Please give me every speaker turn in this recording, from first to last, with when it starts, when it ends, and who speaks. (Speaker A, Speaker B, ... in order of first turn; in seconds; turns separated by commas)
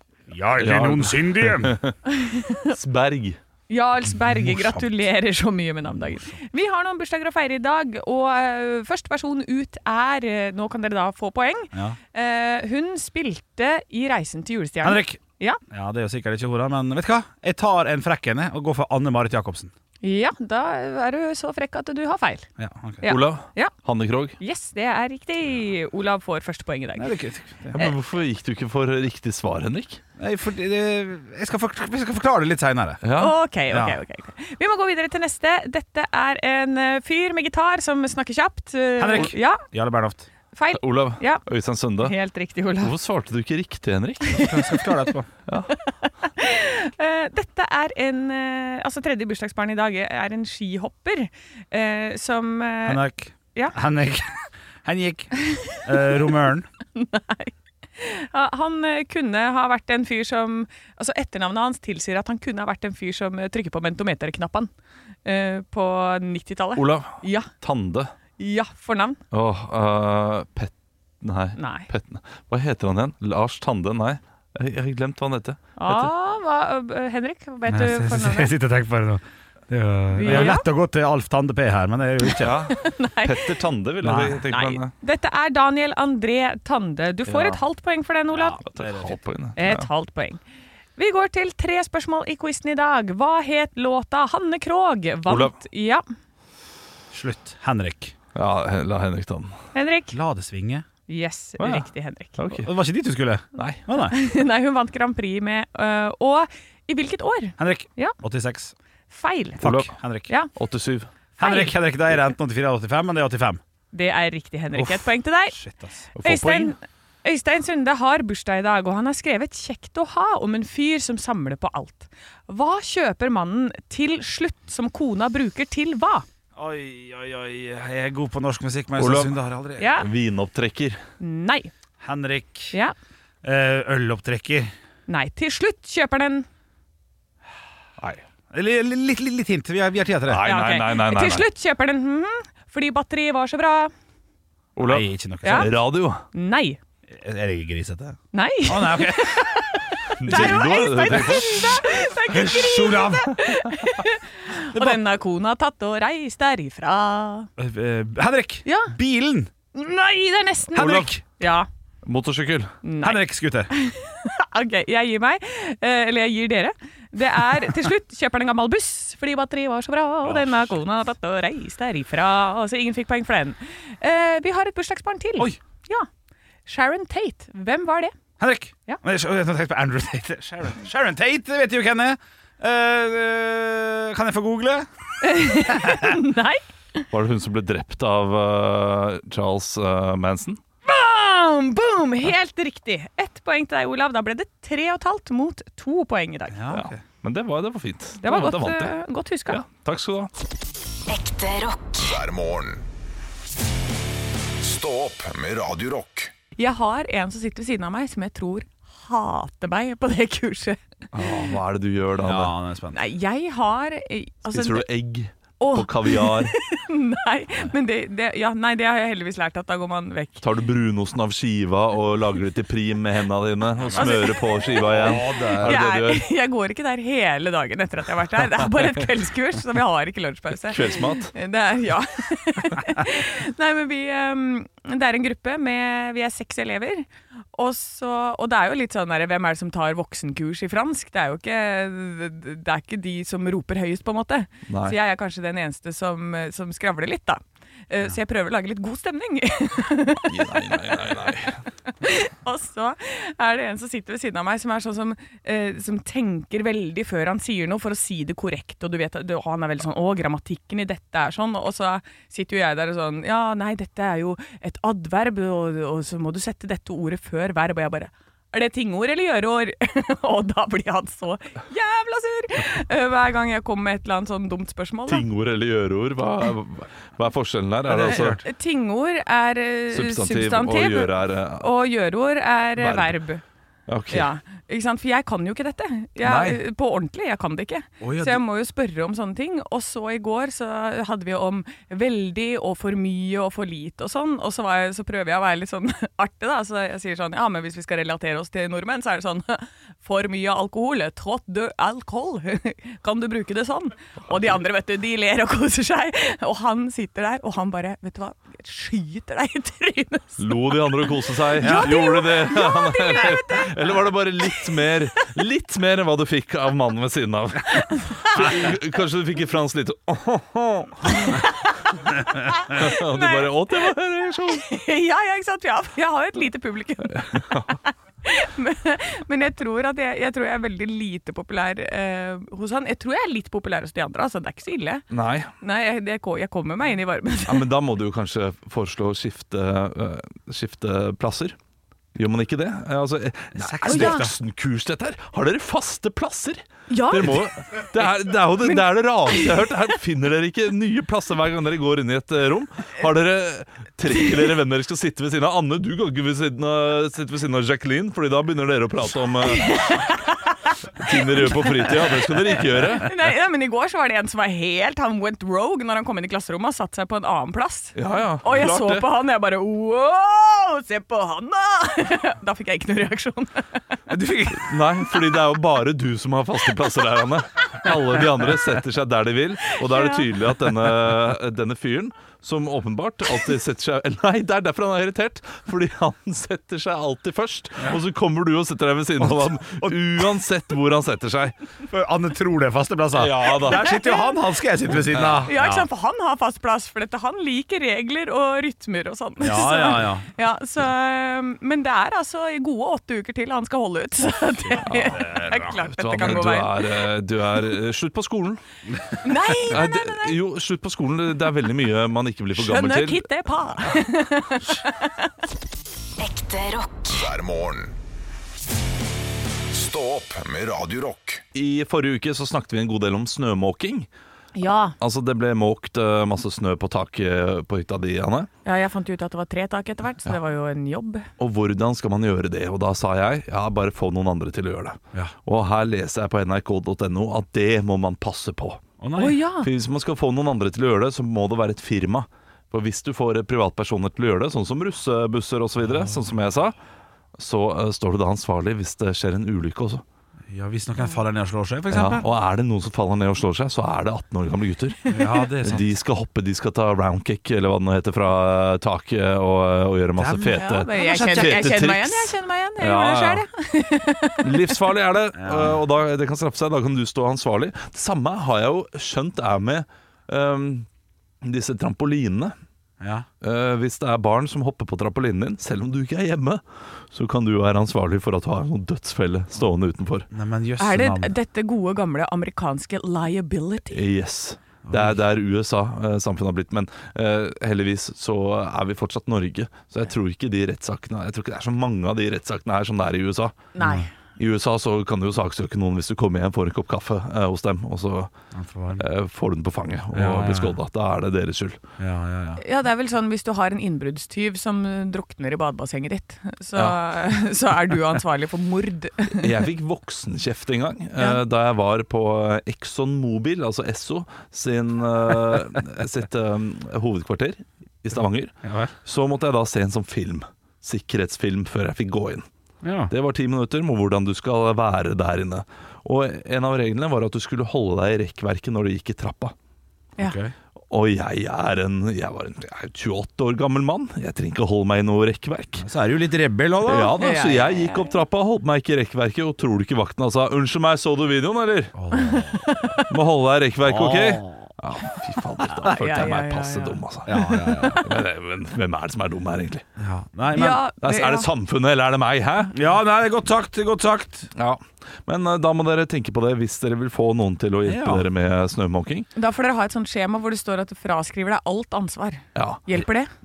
Speaker A: 0.3-1.8, Speaker B: 0.6-1.9, Speaker C: 2.1-2.8, Speaker B: 2.7-3.4, Speaker C: 3.7-15.6, Speaker A: 14.8-19.7, Speaker C: 20.0-22.5, Speaker A: 22.6-23.1, Speaker C: 23.0-23.7, Speaker B: 23.1-24.4, Speaker C: 24.4-27.1, Speaker A: 27.0-27.8, Speaker B: 27.7-30.0, Speaker A: 30.2-33.0, Speaker B: 33.0-33.4, Speaker C: 33.2-39.6, Speaker A: 33.7-34.0, Speaker A: 39.0-40.3, Speaker C: 40.5-41.4, Speaker B: 40.7-42.1, Speaker C: 42.0-42.9, Speaker B: 42.8-44.6, Speaker C: 44.3-44.8, Speaker A: 44.4-45.3, Speaker C: 45.7-53.0, Speaker A: 52.9-56.7, Speaker C: 55.4-55.7, Speaker C: 57.0-64.7, Speaker C: 65.2-67.5, Speaker B: 66.8-68.1, Speaker C: 68.4-69.2, Speaker B: 69.3-76.1, Speaker C: 71.6-71.9, Speaker C: 75.8-78.5, Speaker A: 77.7-82.6, Speaker C: 80.1-80.7, Speaker B: 80.2-80.6, Speaker B: 82.4-84.9, Speaker C: 82.7-83.6, Speaker A: 84.0-84.5, Speaker C: 84.5-88.6, Speaker B: 87.3-87.6, Speaker A: 88.3-89.2, Speaker B: 88.6-89.9, Speaker C: 89.6-90.4, Speaker C: 91.0-96.0, Speaker B: 95.3-95.5, Speaker A: 97.1-98.1, Speaker B: 98.3-99.6, Speaker C: 99.7-100.2, Speaker A: 100.1-100.9, Speaker C: 101.1-102.4, Speaker B: 101.6-102.7, Speaker A: 102.5-104.1, Speaker C: 104.0-108.2, Speaker A: 107.6-108.7, Speaker C: 109.1-109.7, Speaker A: 109.6-110.3, Speaker B: 109.6-109.9, Speaker B: 110.5-111.1, Speaker C: 111.4-111.7, Speaker A: 111.4-113.6, Speaker C: 113.9-115.6, Speaker A: 114.8-116.1, Speaker B: 116.1-116.7, Speaker C: 116.2-126.2, Speaker A: 126.6-129.9, Speaker B: 129.0-129.3, Speaker C: 129.8-130.1, Speaker B: 130.0-131.0, Speaker C: 131.2-131.7, Speaker A: 132.0-132.7, Speaker A: 133.4-134.7, Speaker C: 135.1-136.5, Speaker A: 138.5-140.4, Speaker B: 140.3-141.5, Speaker C: 140.4-143.9, Speaker B: 144.8-146.2, Speaker A: 144.9-145.7, Speaker C: 145.4-145.7, Speaker C: 146.3-146.8, Speaker A: 147.1-151.4, Speaker C: 148.3-157.5, Speaker B: 150.2-151.8, Speaker A: 152.3-153.4, Speaker A: 154.7-155.0, Speaker A: 157.6-159.5, Speaker C: 158.7-158.9, Speaker C: 159.7-161.7, Speaker A: 160.8-161.2, Speaker B: 160.8-161.1, Speaker B: 162.0-162.7, Speaker C: 162.8-176.1, Speaker A: 163.0-163.7, Speaker A: 170.2-170.7, Speaker C: 176.7-178.1, Speaker A: 178.4-184.9, Speaker C: 185.2-187.0, Speaker A: 185.4-186.2, Speaker B: 187.1-190.6, Speaker C: 190.8-196.6, Speaker A: 196.5-197.0, Speaker B: 196.7-198.9, Speaker C: 198.2-199.6, Speaker B: 199.5-200.3, Speaker D: 201.1-202.2, Speaker E: 202.0-202.8, Speaker E: 204.6-206.3, Speaker C: 206.6-211.5, Speaker B: 211.1-212.5, Speaker A: 212.2-213.0, Speaker C: 212.9-214.9, Speaker B: 214.5-216.6, Speaker C: 215.6-220.4, Speaker B: 220.4-226.2, Speaker A: 223.8-225.8, Speaker C: 223.9-275.2, Speaker B: 230.7-231.3, Speaker B: 244.7-245.0, Speaker B: 250.2-251.6, Speaker B: 275.1-278.4, Speaker A: 277.9-278.4, Speaker C: 278.1-283.4, Speaker B: 279.9-281.7, Speaker B: 282.8-283.1, Speaker B: 283.9-284.3, Speaker C: 284.1-310.8, Speaker B: 286.2-286.6, Speaker A: 288.0-288.4, Speaker B: 310.4-321.4, Speaker C: 311.6-313.7, Speaker A: 311.6-312.0, Speaker C: 317.8-318.6, Speaker C: 321.1-323.9, Speaker B: 322.7-324.7, Speaker C: 324.5-335.1, Speaker B: 327.1-327.8, Speaker B: 335.1-335.5, Speaker C: 335.6-337.7, Speaker B: 337.5-341.6, Speaker B: 342.1-360.1, Speaker A: 343.5-344.3, Speaker C: 343.9-344.3, Speaker C: 346.9-347.5, Speaker C: 348.6-349.7, Speaker C: 359.5-373.8, Speaker B: 361.0-363.1, Speaker B: 367.9-369.1, Speaker A: 374.1-374.8, Speaker B: 374.5-391.6, Speaker C: 379.7-380.3, Speaker A: 389.2-390.2, Speaker A: 391.9-395.8, Speaker B: 393.1-394.0, Speaker C: 393.6-394.4, Speaker B: 395.0-395.7, Speaker C: 395.4-407.1, Speaker A: 399.4-400.3, Speaker A: 404.7-405.7, Speaker B: 404.9-405.3, Speaker B: 405.9-408.6, Speaker C: 409.2-410.3, Speaker B: 409.6-413.3, Speaker C: 412.6-415.3, Speaker D: 416.2-417.3, Speaker E: 417.1-417.9, Speaker E: 419.7-421.4, Speaker B: 421.5-424.1, Speaker C: 424.6-424.9, Speaker B: 425.0-428.5, Speaker C: 428.6-431.3, Speaker B: 431.4-438.8, Speaker A: 439.0-439.4, Speaker C: 439.2-439.7, Speaker B: 439.6-446.8, Speaker A: 445.9-446.2, Speaker B: 447.4-450.0, Speaker A: 450.5-452.3, Speaker B: 451.9-463.4, Speaker A: 455.1-455.9, Speaker A: 460.1-460.6, Speaker C: 460.6-464.7, Speaker A: 461.1-461.4, Speaker B: 464.4-470.9, Speaker A: 465.4-465.8, Speaker B: 471.4-472.5, Speaker A: 473.0-473.3, Speaker B: 473.4-480.3, Speaker A: 480.3-481.3, Speaker C: 480.8-484.0, Speaker B: 483.9-493.6, Speaker A: 484.8-485.2, Speaker C: 493.8-494.1, Speaker A: 493.8-494.1, Speaker B: 494.4-498.3, Speaker A: 498.5-499.1, Speaker B: 499.0-501.8, Speaker A: 500.1-500.8, Speaker A: 502.0-502.6, Speaker C: 502.6-509.5, Speaker B: 509.4-522.5, Speaker A: 518.6-518.9, Speaker A: 522.8-523.1, Speaker B: 523.1-529.5, Speaker A: 530.2-530.5, Speaker B: 530.9-535.9, Speaker A: 535.8-537.2, Speaker B: 536.9-542.0, Speaker C: 537.2-538.1, Speaker A: 541.9-542.9, Speaker C: 542.1-543.1, Speaker B: 543.1-549.9, Speaker A: 543.8-544.7, Speaker C: 545.6-548.0, Speaker A: 547.3-548.1, Speaker A: 550.0-550.8, Speaker C: 550.5-551.5, Speaker B: 551.0-552.8, Speaker A: 552.7-554.5, Speaker B: 554.5-559.3, Speaker A: 557.9-558.3, Speaker C: 559.4-563.3, Speaker B: 562.5-563.0